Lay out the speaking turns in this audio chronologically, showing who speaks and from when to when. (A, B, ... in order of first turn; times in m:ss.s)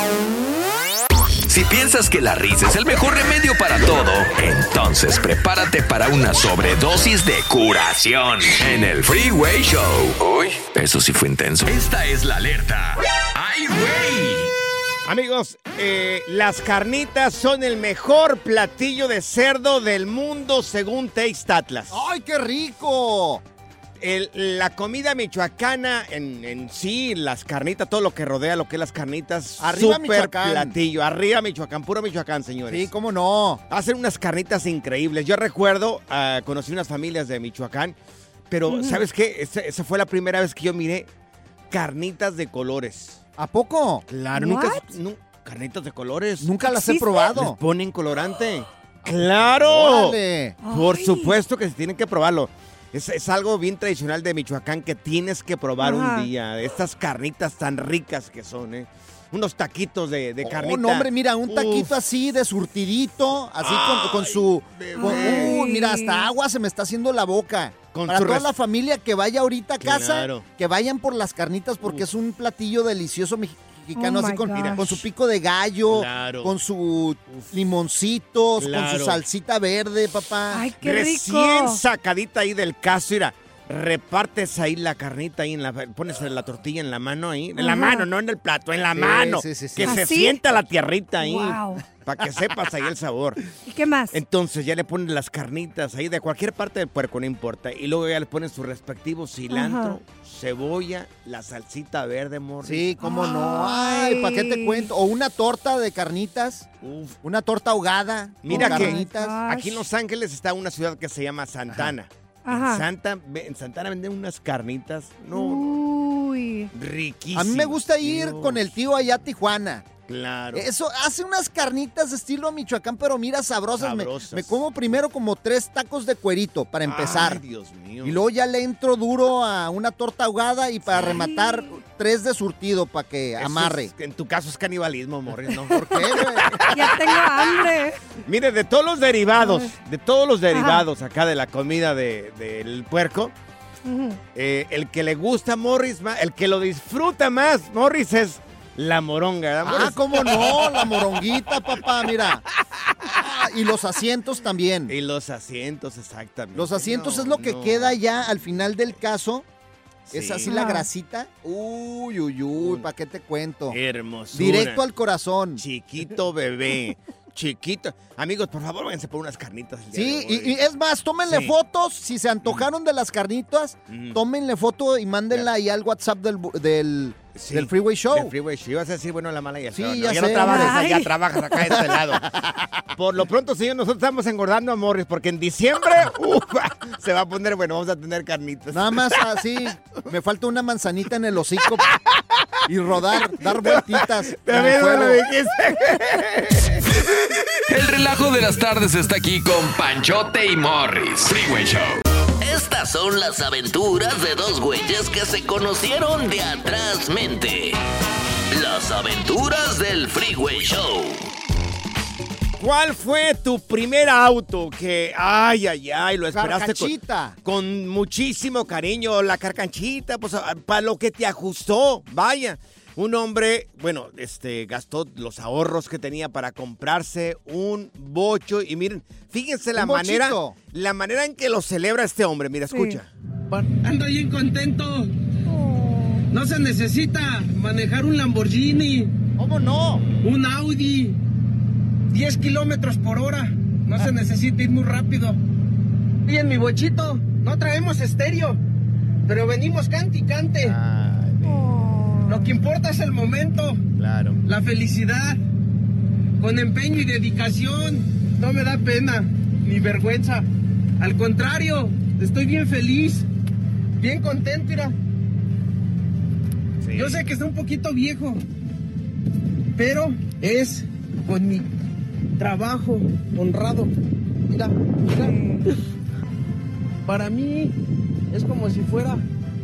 0:01.5-0:14.5 A
0:15.0-0:22.0 B
0:21.9-0:23.4 C
0:24.0-0:32.9 B
0:29.6-0:30.7 C
0:32.7-0:33.6 C
0:33.7-0:38.0 B
0:38.5-0:41.1 B
0:38.7-0:39.0 D
0:41.7-0:43.2 B
0:43.4-0:44.0 C
0:44.1-0:46.5 B
0:44.3-0:44.9 D
0:46.4-0:47.6 C
0:46.6-0:47.4 D
0:47.3-0:50.2 B
0:49.1-0:50.6 C
0:50.6-0:51.4 D
0:50.7-1:01.9 B
0:55.8-0:56.3 D
1:00.4-1:20.7 C
1:03.6-1:05.6 B
1:05.0-1:06.3 D
1:07.9-1:08.5 B
1:09.8-1:10.4 B
1:13.9-1:14.8 D
1:14.5-1:15.0 B
1:15.9-1:16.5 B
1:18.6-1:19.2 B
1:20.5-1:21.8 D
1:20.8-1:33.4 B
1:27.6-1:28.1 D
1:28.9-1:30.1 C
1:29.8-1:30.4 D
1:31.2-1:31.8 D
1:33.6-1:34.2 D
1:34.1-1:42.9 B
1:39.5-1:40.0 D
1:42.6-1:46.7 C
1:43.0-1:44.9 D
1:46.8-1:47.2 B
1:47.2-1:49.4 C
1:48.4-1:55.8 B
1:48.5-1:49.8 D
1:52.4-1:52.8 D
1:55.3-1:56.7 D
1:56.7-1:58.7 B
1:57.3-1:59.9 C
2:00.1-2:00.7 B
2:00.5-2:07.4 C
2:03.8-2:04.6 B
2:06.8-2:08.2 B
2:08.0-2:13.9 C
2:10.9-2:11.3 B
2:11.0-2:11.7 D
2:13.4-2:17.7 B
2:15.7-2:16.7 C
2:16.6-2:18.0 D
2:18.2-2:23.3 B
2:19.4-2:19.7 D
2:20.5-2:20.8 D
2:23.8-2:24.2 D
2:24.3-2:32.2 B
2:29.6-2:32.4 C
2:32.8-2:33.5 B
2:33.0-2:34.9 C
2:34.9-2:38.0 B
2:36.5-2:39.4 C
2:40.1-2:40.5 B
2:40.1-2:43.8 C
2:40.4-2:40.9 D
2:42.6-2:42.9 B
2:43.7-2:44.8 B
2:44.3-2:45.6 C
2:45.6-2:50.6 B
2:49.9-2:58.3 C
2:51.2-2:51.6 B
2:52.4-2:52.7 B
2:53.9-2:54.2 B
2:57.4-3:02.3 B
2:59.7-3:00.9 C
3:00.3-3:01.9 D
3:01.7-3:02.8 C
3:02.9-3:09.4 B
3:08.7-3:11.9 C
3:11.9-3:12.2 B
3:12.6-3:15.2 C
3:13.4-3:17.1 B
3:17.7-3:22.0 A
3:22.4-3:27.8 E
3:28.5-3:31.3 E
3:32.6-3:53.1 B
3:36.3-3:37.4 C
3:49.7-3:50.6 C
3:52.7-3:53.0 D
3:53.5-3:55.1 F
3:55.5-3:56.3 D
3:56.3-3:59.1 F
3:59.4-4:00.0 C
3:59.7-4:00.3 B
4:00.2-4:01.2 F
4:02.1-4:05.4 F
4:06.2-4:08.6 F
4:09.2-4:10.8 F
4:10.6-4:11.8 B
4:11.4-4:12.5 D
4:12.2-4:13.8 F
4:14.0-4:14.4 B
4:14.4-4:15.4 F
4:16.4-4:20.4 F
4:21.0-4:23.3 F
4:24.0-4:24.9 F
4:26.8-4:27.2 B
4:26.9-4:28.4 F
4:29.8-4:31.7 F
4:32.4-4:33.9 F
4:34.5-4:35.8 F
4:35.1-4:35.7 D
4:37.0-4:37.7 F
4:38.3-4:39.2 F